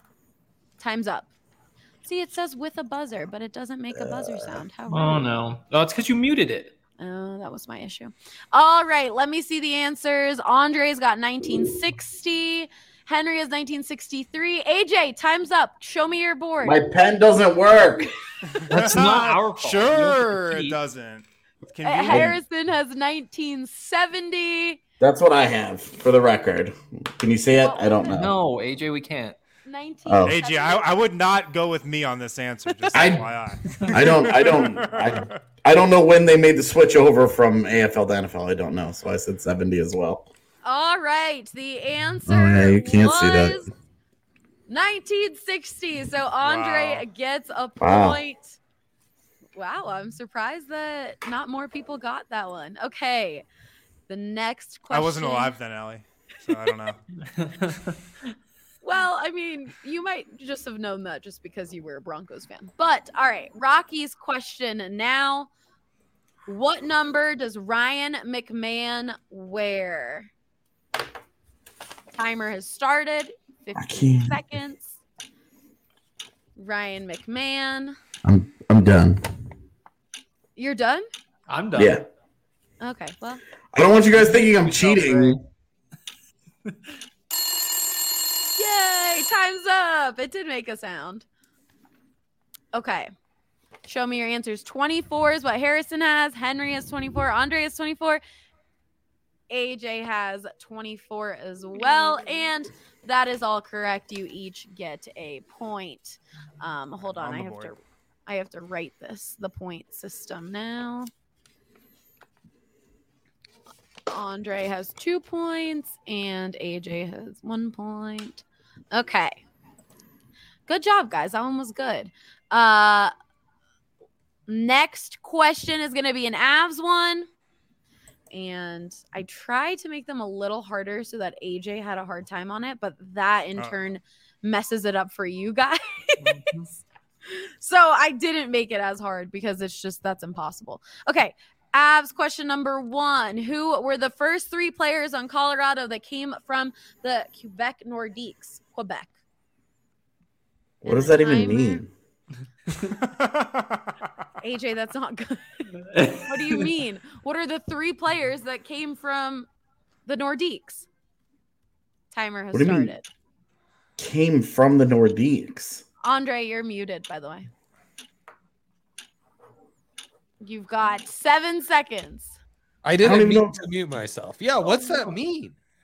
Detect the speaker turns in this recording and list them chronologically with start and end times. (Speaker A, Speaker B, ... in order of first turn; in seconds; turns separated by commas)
Speaker A: 0.8-1.3, Speaker A: 2.0-5.3, Speaker B: 3.9-4.6, Speaker C: 4.9-6.7, Speaker A: 7.0-16.8, Speaker B: 16.6-18.1, Speaker D: 18.6-22.4, Speaker C: 18.7-20.8, Speaker A: 21.8-24.8, Speaker B: 25.0-28.4, Speaker A: 27.6-28.2, Speaker C: 28.1-29.4, Speaker A: 29.7-31.0, Speaker B: 30.1-30.4, Speaker D: 30.2-35.4, Speaker B: 32.9-33.2, Speaker B: 33.9-40.3, Speaker A: 40.6-43.7, Speaker B: 42.3-43.6, Speaker A: 44.7-48.6, Speaker D: 46.4-47.1, Speaker B: 47.8-48.2, Speaker A: 49.6-53.5, Speaker A: 54.1-55.6, Speaker D: 54.9-57.0, Speaker C: 57.4-58.0, Speaker A: 58.8-65.5, Speaker A: 66.5-70.3, Speaker A: 72.2-75.0, Speaker B: 73.8-74.4, Speaker A: 76.6-78.0, Speaker B: 78.2-79.2, Speaker A: 80.6-81.1, Speaker C: 81.5-82.0, Speaker B: 81.8-82.0, Speaker A: 82.8-83.4, Speaker B: 83.7-85.4, Speaker C: 84.2-85.4, Speaker A: 88.6-91.2, Speaker A: 92.7-93.1, Speaker A: 93.9-98.2, Speaker A: 99.5-111.1, Speaker D: 107.0-107.8, Speaker A: 114.1-119.4, Speaker A: 120.7-123.1, Speaker A: 124.5-127.3, Speaker A: 128.3-136.4, Speaker C: 136.2-136.7, Speaker A: 137.3-149.1, Speaker B: 150.8-151.9, Speaker A: 150.9-151.8, Speaker D: 153.0-153.9, Speaker A: 154.4-159.5, Speaker C: 155.9-156.7, Speaker A: 160.1-160.9, Speaker A: 162.1-163.1, Speaker B: 162.5-162.9, Speaker B: 164.0-165.8, Speaker A: 166.0-167.5, Speaker A: 170.4-172.4, Speaker E: 172.8-175.6, Speaker B: 173.0-173.6